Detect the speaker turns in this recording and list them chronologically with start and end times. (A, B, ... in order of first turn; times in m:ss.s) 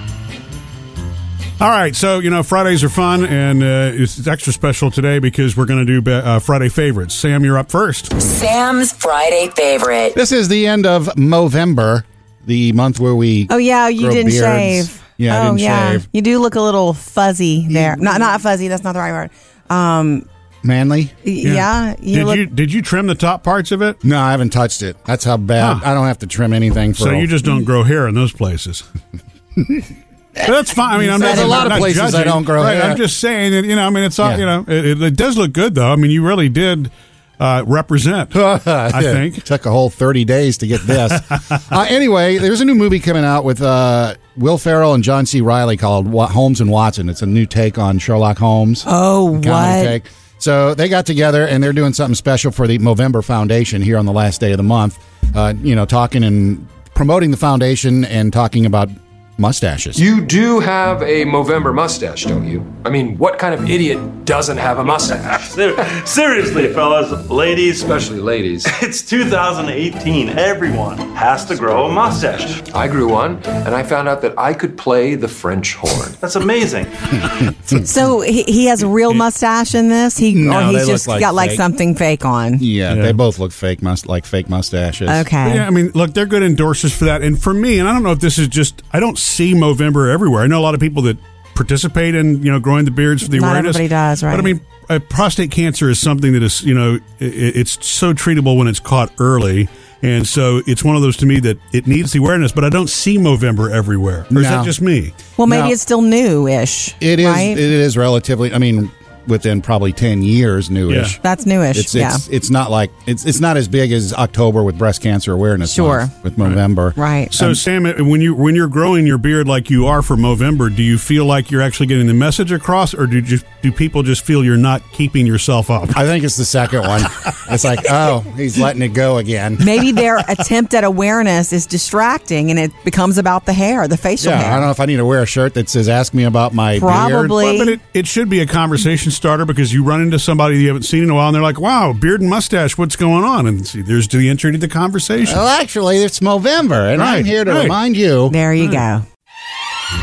0:01.6-0:08.1 A
0:08.1-0:10.2 B
0:10.1-0:16.0 C
0:13.5-0:20.3 D
0:17.7-0:18.2 C
0:20.6-0:21.2 C
0:21.2-0:22.4 D
0:21.4-0:24.0 A
0:24.0-0:27.3 C
0:25.6-0:25.8 A
0:27.0-0:28.8 A
0:30.4-0:38.3 A
0:31.0-0:33.0 C
0:31.0-0:31.9 D
0:38.3-1:00.0 C
0:38.9-0:39.4 A
0:48.9-0:50.0 D
1:00.0-1:05.8 E
1:05.1-1:07.9 F
1:07.8-1:08.7 E
1:08.6-1:12.6 F
1:12.7-1:16.2 E
1:16.2-1:16.9 F
1:17.7-1:22.6 D
1:20.3-1:21.6 C
1:22.6-1:25.3 C
1:22.9-1:23.2 A
1:25.1-1:25.6 D
1:25.4-1:45.1 A
1:33.3-1:34.6 D
1:44.3-1:44.7 C
1:45.4-1:47.6 D
1:45.4-1:45.7 C
1:47.0-1:51.2 C
1:50.9-1:51.2 A
1:51.2-1:52.2 D
1:51.7-1:57.6 C
1:55.6-1:56.1 D
1:57.0-1:57.3 D
1:57.3-2:06.0 A
2:05.9-2:09.8 C
2:09.6-2:14.7 D
2:14.2-2:17.3 C
2:16.8-2:17.8 D
2:17.2-2:25.4 A
2:25.2-2:28.3 C
2:27.0-2:27.8 A
2:28.3-2:29.0 D